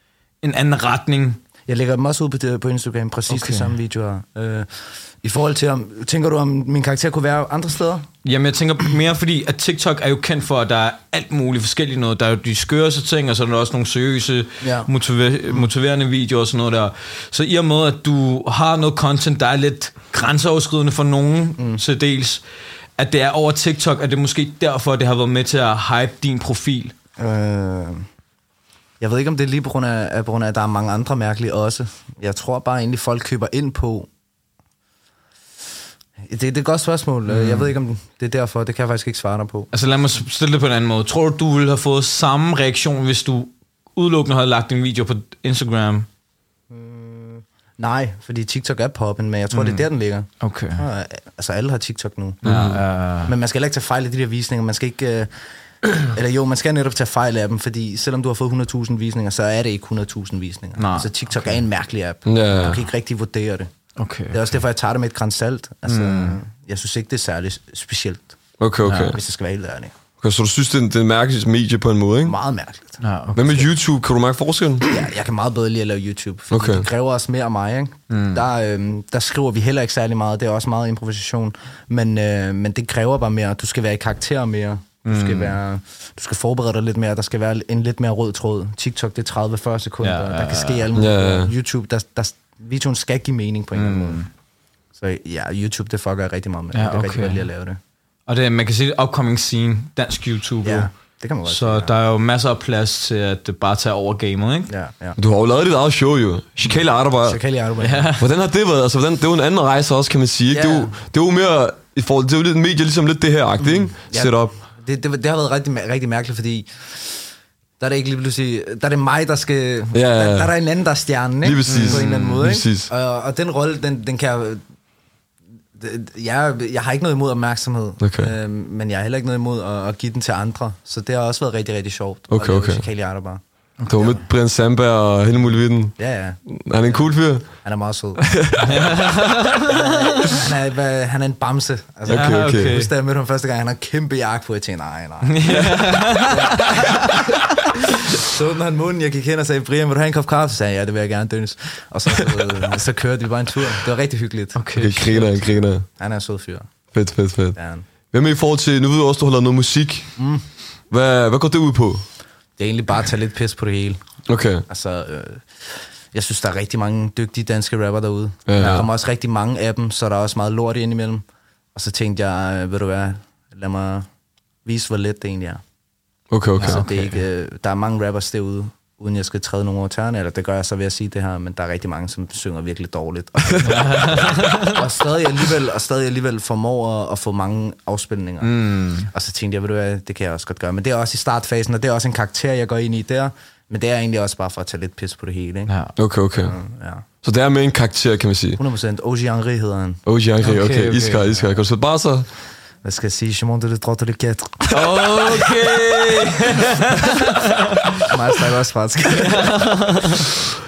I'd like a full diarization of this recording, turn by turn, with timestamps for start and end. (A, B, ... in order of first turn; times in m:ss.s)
0:00.4-0:01.4 A
0:01.7-0:08.0 B
0:03.3-0:03.7 A
0:08.2-0:22.4 A
0:14.6-0:14.9 B
0:21.6-0:21.8 B
0:23.0-0:26.9 A
0:27.2-0:28.0 B
0:29.0-0:34.1 B
0:36.2-0:39.7 B
0:37.3-0:37.7 A
0:39.7-0:46.1 A
0:46.7-0:52.4 B
0:49.5-0:49.8 A
0:50.4-0:50.8 A
0:52.4-0:52.8 C
0:52.4-0:53.3 A
0:53.2-0:55.3 B
0:55.9-1:03.7 B
1:00.8-1:01.6 A
1:02.2-1:02.8 C
1:04.0-1:04.4 A
1:04.3-1:08.4 B
1:05.9-1:06.4 A
1:08.6-1:09.2 C
1:08.8-1:09.2 A
1:09.1-1:09.9 B
1:10.2-1:12.4 C
1:12.2-1:13.0 B
1:13.0-1:13.7 A
1:13.3-1:14.9 C
1:14.9-1:34.2 B
1:16.5-1:16.8 C
1:18.1-1:18.4 A
1:25.0-1:25.6 A
1:30.0-1:30.9 A
1:30.9-1:31.5 C
1:33.7-1:34.3 A
1:35.0-1:37.8 B
1:36.7-1:37.5 A
1:38.3-1:40.9 A
1:40.6-1:41.9 B
1:41.4-1:44.7 A
1:44.7-1:45.2 B
1:45.2-1:47.4 C
1:47.2-1:48.1 B
1:47.8-1:48.2 A
1:48.2-1:54.5 C
1:50.5-1:50.9 B
1:53.6-1:57.3 B
1:57.8-2:04.6 B
1:59.9-2:00.5 C
2:01.4-2:02.9 C
2:01.6-2:02.2 A
2:05.7-2:13.4 B
2:08.0-2:08.3 C
2:12.3-2:12.8 C
2:13.8-2:14.2 A
2:13.9-2:15.9 C
2:16.0-2:17.0 B
2:16.4-2:17.5 C
2:17.6-2:19.0 B
2:18.2-2:18.9 C
2:18.6-2:20.4 A
2:19.5-2:34.6 B
2:22.1-2:22.8 C
2:22.1-2:22.9 A
2:25.2-2:27.5 A
2:25.4-2:25.9 C
2:34.6-2:35.3 A
2:34.8-2:35.8 C
2:35.9-2:36.7 B
2:36.9-2:37.6 C
2:37.5-2:37.8 B
2:38.1-2:40.1 C
2:40.2-2:40.4 B
2:40.9-2:42.0 C
2:42.6-2:44.0 B
2:44.3-2:44.6 C
2:44.7-2:51.2 B
2:48.5-2:48.9 C
2:51.7-2:54.1 B
2:54.6-2:55.6 B
2:56.3-2:56.8 C
2:56.6-2:57.2 A
2:56.6-3:15.7 B
3:03.6-3:04.8 A
3:08.4-3:09.1 A
3:15.7-3:15.9 A
3:16.0-3:16.6 C
3:16.4-3:17.0 B
3:17.2-3:18.6 C
3:18.6-3:20.0 B
3:20.0-3:22.3 C
3:20.4-3:21.3 A
3:22.8-3:25.1 B
3:24.7-3:28.0 A
3:28.0-3:29.8 B
3:29.1-3:30.3 A